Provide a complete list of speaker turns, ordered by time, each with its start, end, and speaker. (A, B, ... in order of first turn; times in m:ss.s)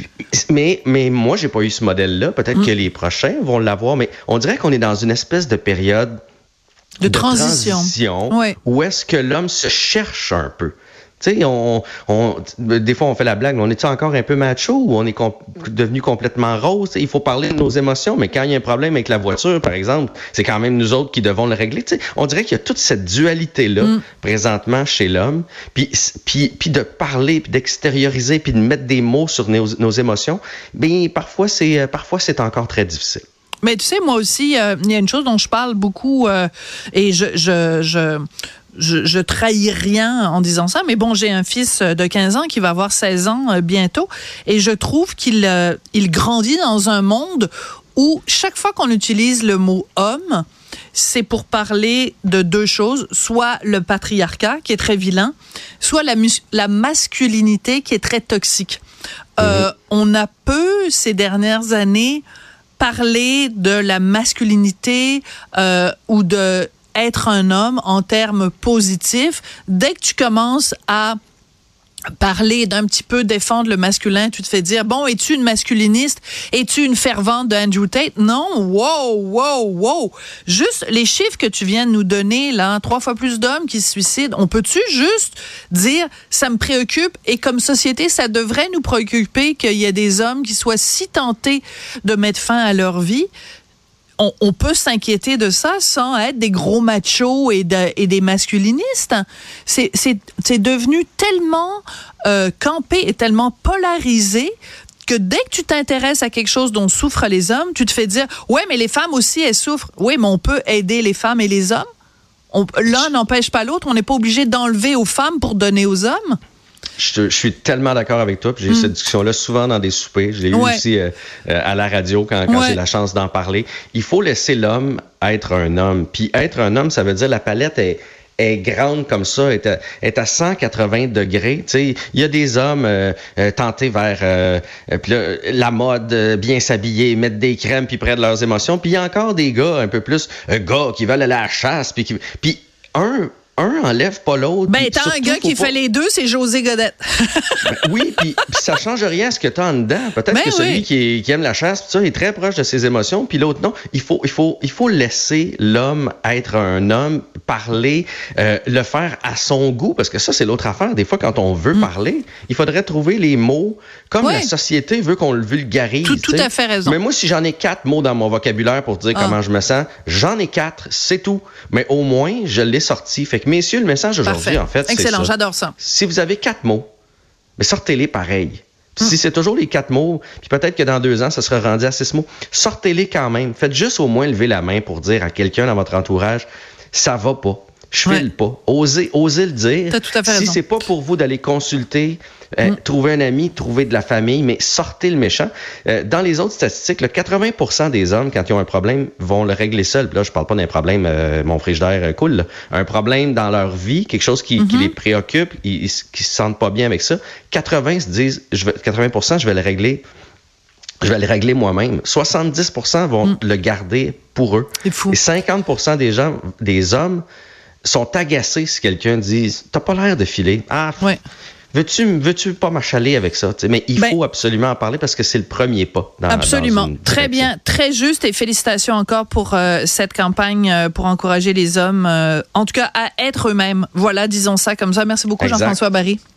0:00.3-0:06.2 A
0:07.0-0:08.6 B
0:07.0-0:33.2 A
0:33.6-0:58.8 B
0:59.4-1:02.2 B
0:59.4-0:59.7 A
1:02.8-1:11.2 B
1:12.2-1:33.3 B
1:34.2-1:44.5 B
1:45.0-1:51.8 B
1:52.5-1:56.4 B
1:57.0-2:25.7 A
2:00.5-2:00.8 B
2:02.5-2:02.8 B
2:24.7-2:27.7 B
2:27.6-2:56.9 A
2:30.3-2:30.8 B
2:44.2-2:44.5 B
2:46.0-2:47.0 B
2:49.1-2:49.4 B
2:54.2-2:55.7 B
2:57.6-3:30.0 A
3:09.9-3:10.6 B
3:24.6-3:24.9 B
3:31.0-3:37.2 A
3:34.8-3:35.2 B
3:37.8-3:41.1 A
3:41.7-3:47.5 A
3:46.3-3:56.2 B
3:55.4-3:55.8 A